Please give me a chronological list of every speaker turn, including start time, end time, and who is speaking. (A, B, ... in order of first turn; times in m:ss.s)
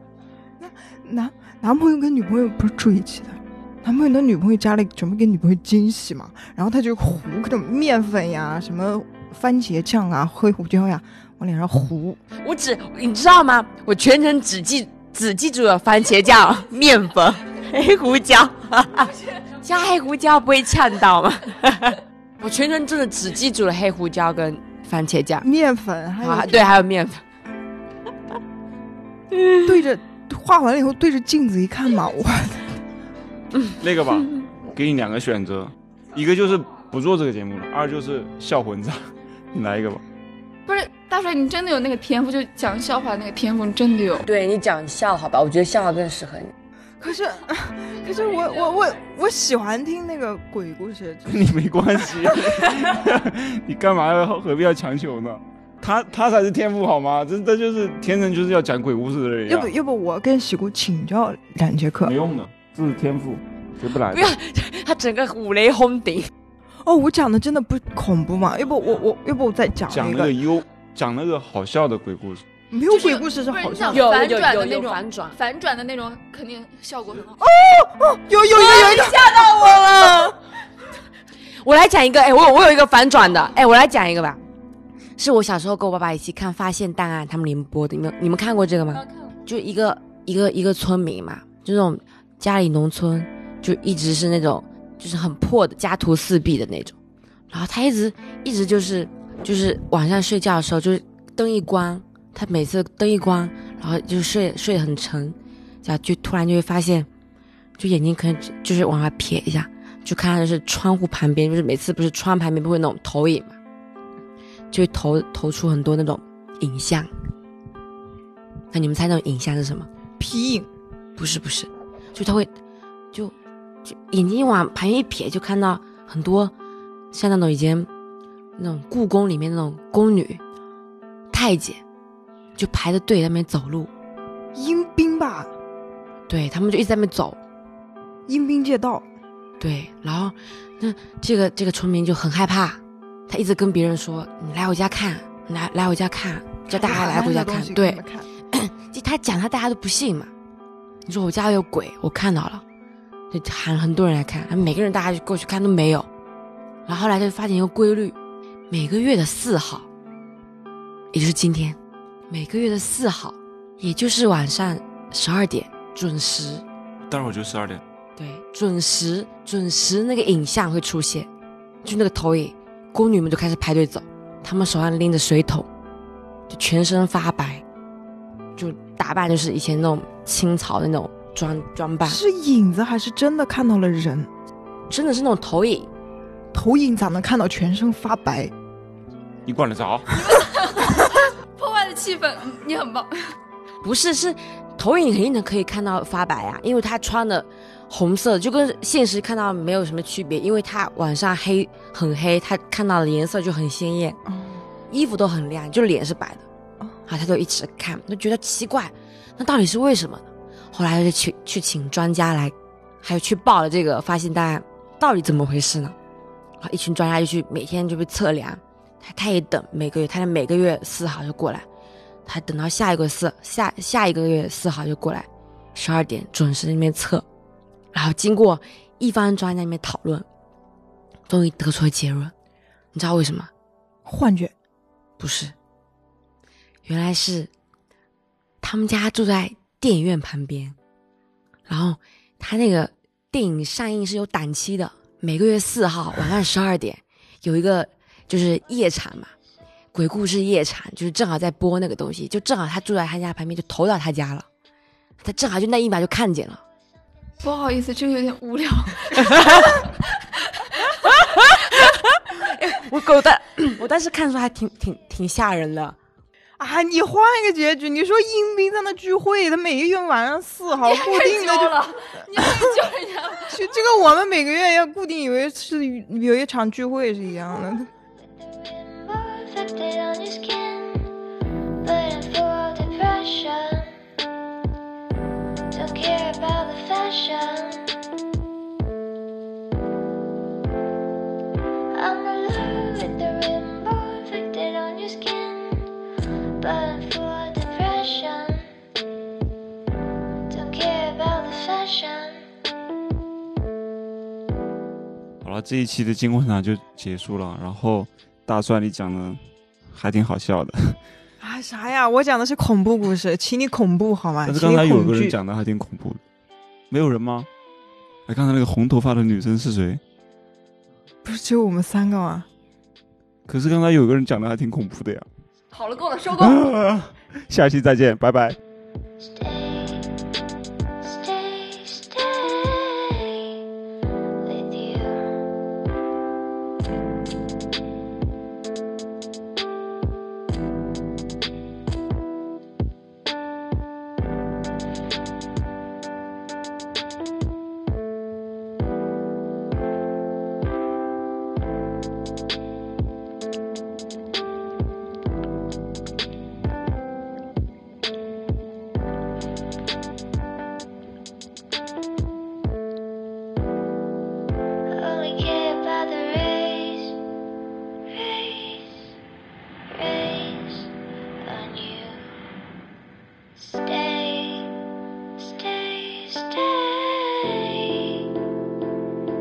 0:00.6-0:12.2 A
0:12.4-0:25.5 B
0:25.4-0:26.7 A
0:26.2-0:27.2 B
0:29.3-0:29.7 B
0:29.6-0:32.7 A
0:33.8-0:40.0 C
0:40.7-0:44.2 D
0:44.2-0:46.5 B
0:47.0-0:51.4 A
0:48.4-0:48.8 D
0:51.3-0:59.7 C
0:59.5-1:02.1 A
1:02.0-1:04.3 C
1:04.0-1:06.3 B
1:06.8-1:10.3 A
1:09.9-1:12.4 C
1:12.7-1:14.1 A
1:12.9-1:17.4 D
1:13.9-1:15.4 B
1:17.4-1:20.3 A
1:18.5-1:20.2 D
1:18.6-1:20.3 B
1:21.5-1:24.4 B
1:25.2-1:37.0 B
1:37.5-1:47.1 B
1:47.8-1:53.6 B
1:54.7-1:57.1 B
1:58.7-1:59.9 B
2:00.2-2:00.7 A
2:01.2-2:02.5 B
2:03.1-2:06.5 B
2:07.1-2:07.9 B
2:08.6-2:10.4 B
2:11.3-2:11.8 B
2:12.6-2:13.9 B
2:14.6-2:15.5 A
2:16.3-2:17.4 B
2:18.3-2:19.0 A
2:19.6-2:30.3 B
2:26.7-2:28.3 A
2:31.0-2:32.6 B
2:33.3-2:36.1 B
2:36.9-2:38.2 B
2:38.7-2:39.9 B
2:41.1-2:41.8 B
2:42.3-2:46.6 B
2:47.0-2:47.8 C
2:48.2-2:51.3 B
2:51.8-2:55.7 B
2:56.5-2:57.6 B
2:58.6-3:02.2 B
3:02.0-3:04.3 A
3:04.9-3:05.9 B
3:06.5-3:08.5 A
3:09.4-3:10.1 C
3:10.1-3:13.4 D
3:13.8-3:24.2 B
3:24.3-3:24.6 A
3:24.9-3:26.4 B
3:27.1-3:36.0 B
3:36.6-3:41.7 B
3:42.3-3:47.2 B
3:47.9-3:50.3 B
3:51.3-3:52.3 B
3:52.9-3:53.5 B
3:54.0-3:54.5 A
3:55.2-3:55.6 B
3:56.9-3:57.5 B
3:58.6-4:00.8 B
4:01.7-4:09.3 B
4:09.9-4:14.5 B
4:15.2-4:16.6 B
4:17.4-4:19.9 D
4:19.2-4:19.8 B
4:20.9-4:26.0 B
4:26.6-4:32.7 A
4:30.8-4:33.7 D
4:33.5-4:37.9 A
4:38.4-4:41.1 E
4:41.8-4:44.0 E
4:45.7-4:48.0 E
4:51.9-4:55.9 E
4:56.6-4:58.7 E
5:00.5-5:02.4 E
5:05.4-5:09.4 C
5:09.9-5:11.0 C
5:11.4-5:15.4 A
5:14.4-5:16.2 C
5:16.9-5:17.5 C
5:18.3-5:20.0 C
5:21.2-5:22.4 A
5:23.5-5:25.3 C
5:25.7-5:26.7 D
5:26.4-5:28.6 C
5:29.2-5:30.1 E
5:31.0-5:33.6 E
5:34.4-5:35.4 E
6:04.9-6:07.2 E
6:08.1-6:09.0 E
6:09.9-6:10.9 E
6:11.4-6:12.2 E
6:13.6-6:14.7 E
6:15.4-6:18.3 E